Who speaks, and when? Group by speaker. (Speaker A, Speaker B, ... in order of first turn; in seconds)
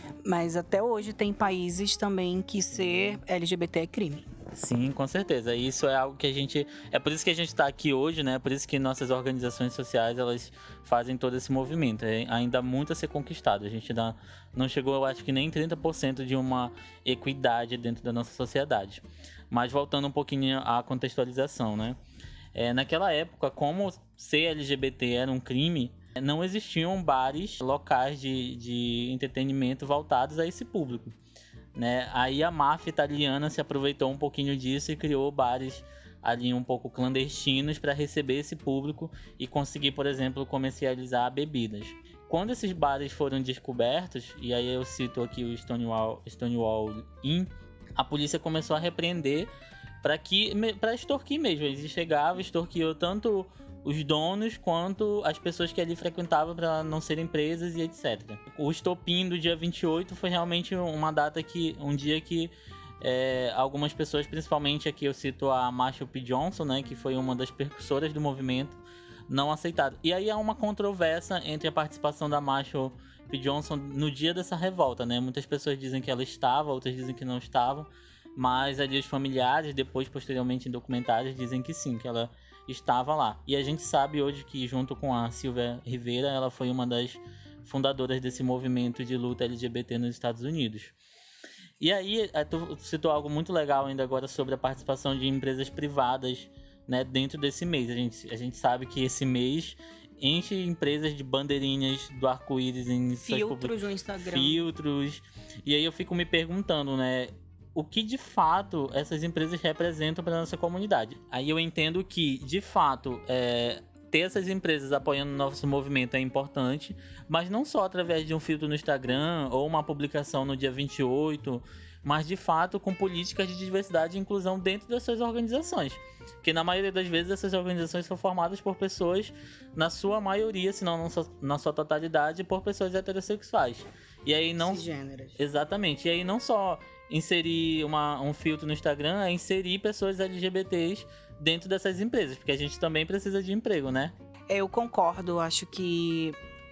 Speaker A: 0.3-4.3, 103.2-104.6, 134.6-135.4, 144.5-146.4
Speaker B: 2.7-3.2, 4.5-22.0, 22.5-31.2, 31.8-49.5, 50.0-91.0, 91.8-103.7, 104.3-134.8, 135.4-144.1